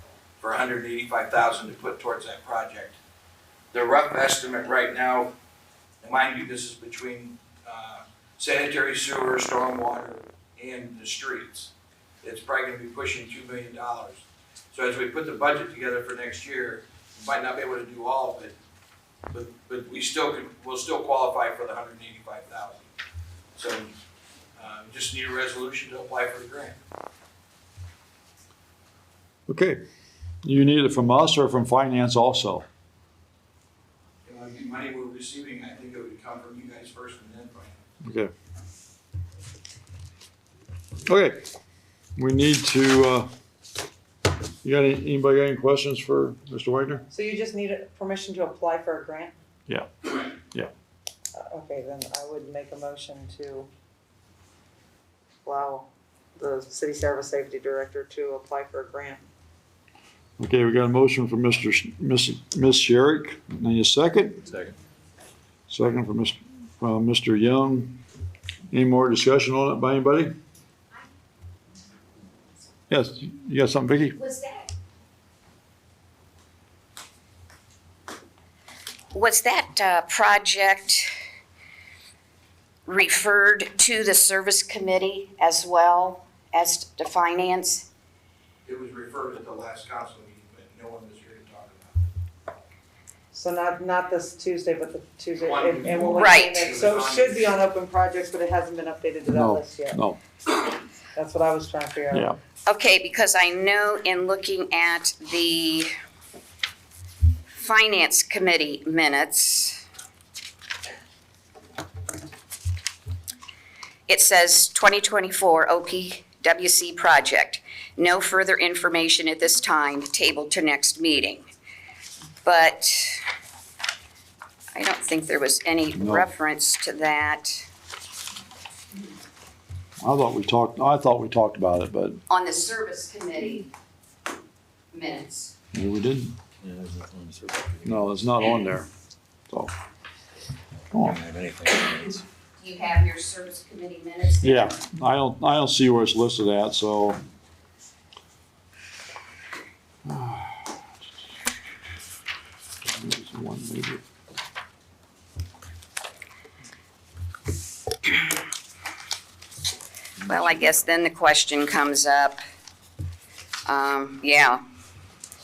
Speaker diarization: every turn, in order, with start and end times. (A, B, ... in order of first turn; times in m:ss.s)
0:00.4-0:03.0 A
0:03.7-0:05.3 A
0:06.0-0:11.7 A
0:12.2-0:18.6 A
0:19.3-0:22.9 A
0:23.6-0:23.9 A
0:24.6-0:26.8 A
0:29.5-0:29.8 B
0:30.4-0:32.7 B
0:34.2-0:37.8 A
0:38.0-0:38.3 B
0:41.1-0:41.5 B
0:42.2-0:43.3 B
0:44.6-0:47.1 B
0:47.1-0:49.4 C
0:51.4-0:53.7 C
0:55.4-0:59.2 C
1:00.4-1:04.4 B
1:05.7-1:08.0 B
1:08.7-1:10.3 B
1:12.9-1:14.2 B
1:14.2-1:14.7 D
1:19.1-1:21.1 D
1:22.9-1:27.9 D
1:28.6-1:32.0 A
1:33.3-1:40.0 C
1:35.4-1:37.5 A
1:36.1-1:36.7 D
1:39.3-1:40.2 B
1:41.1-1:42.3 C
1:42.1-1:42.4 B
1:42.7-1:45.9 D
1:47.5-1:49.8 D
1:54.1-2:01.4 D
2:02.4-2:03.3 D
2:04.7-2:07.7 D
2:06.0-2:06.3 B
2:10.0-2:12.2 B
2:12.3-2:13.7 D
2:14.9-2:15.5 D
2:15.7-2:16.4 B
2:16.6-2:18.1 E
2:17.8-2:18.9 B
2:20.9-2:21.2 B
2:21.0-2:22.2 E
2:22.6-2:24.8 D
2:24.4-2:27.2 B
2:30.1-2:30.7 B
2:32.9-2:34.0 B
2:40.3-2:42.4 D
2:43.7-2:44.6 D